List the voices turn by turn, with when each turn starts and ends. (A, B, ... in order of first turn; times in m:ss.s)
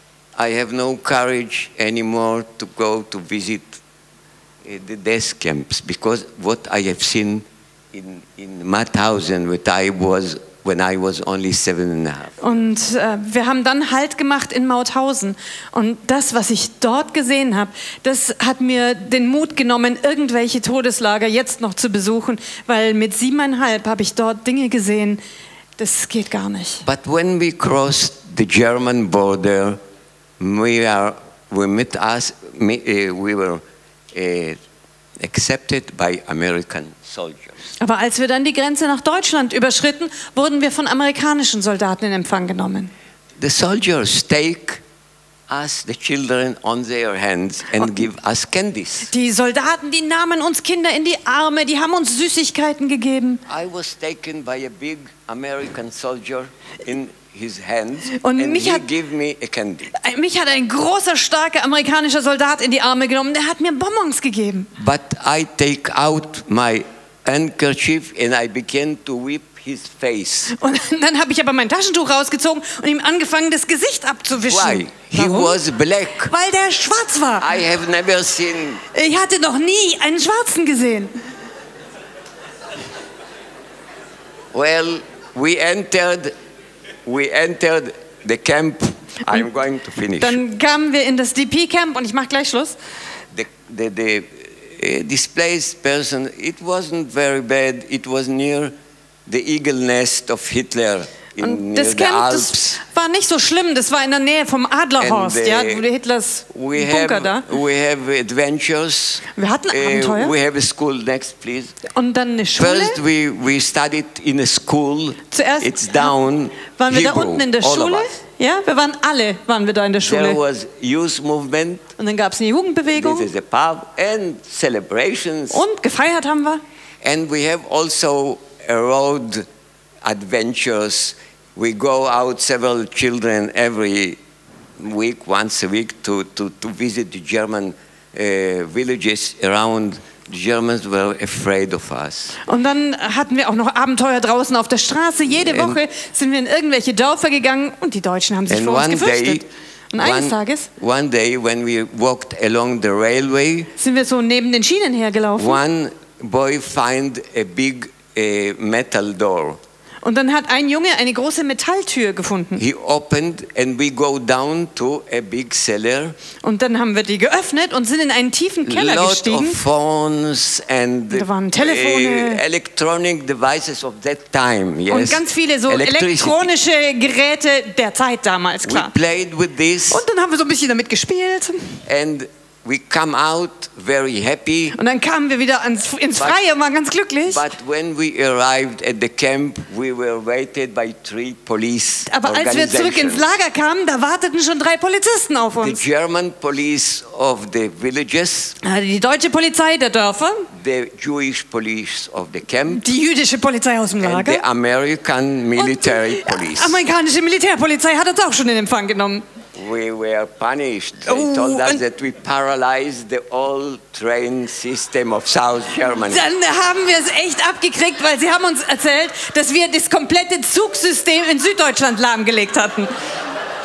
0:00.4-0:03.8 A
0:04.6-0:12.5 A
0:12.4-0:25.2 B
0:25.8-0:26.8 B
0:26.8-0:29.8 A
0:30.4-0:33.6 A
0:34.1-0:34.6 A
0:35.2-0:37.6 A
0:37.8-0:42.9 B
0:43.4-0:44.8 A
0:45.5-0:49.1 A
0:49.1-0:53.4 B
0:53.5-1:00.0 A
0:58.2-0:58.8 B
1:00.0-1:04.7 B
1:04.8-1:10.5 A
1:10.6-1:15.6 B
1:14.3-1:16.3 A
1:16.3-1:17.5 B
1:17.4-1:18.8 A
1:18.9-1:21.1 B
1:24.5-1:26.3 A
1:27.0-1:30.4 A
1:30.2-1:32.8 B
1:33.3-1:38.7 A
1:39.2-1:42.8 A
1:41.4-1:47.4 B
1:45.0-1:45.8 A
1:46.5-1:51.8 A
1:49.3-1:50.3 B
1:51.9-1:53.0 B
1:52.6-1:58.2 A
1:55.3-1:56.1 B
1:56.8-2:00.4 B
2:00.0-2:01.8 A
2:02.0-2:03.3 B
2:02.9-2:05.6 A
2:05.5-2:06.6 B
2:07.0-2:09.4 A
2:10.0-2:14.2 A
2:14.8-2:22.4 A
2:22.4-2:30.7 B
2:25.3-2:25.8 A
2:28.5-2:29.4 A
2:30.0-2:33.7 A
2:33.8-2:35.6 B
2:35.4-2:39.6 A
2:40.0-2:42.6 B
2:42.6-2:46.2 A
2:46.4-2:49.6 B
2:48.6-2:56.5 A
2:51.1-2:52.4 B
2:54.9-2:58.9 B
2:58.6-3:00.0 A
2:59.9-3:01.8 B
3:01.8-3:04.8 A
3:04.8-3:07.4 B
3:07.2-3:13.3 A
3:12.1-3:15.8 B
3:15.6-3:18.6 A
3:18.6-3:20.5 B
3:20.5-3:22.8 A
3:22.7-3:24.4 B
3:24.0-3:26.8 A
3:25.6-3:29.2 B
3:29.5-3:36.2 A
3:31.0-3:31.8 B
3:36.0-3:42.9 B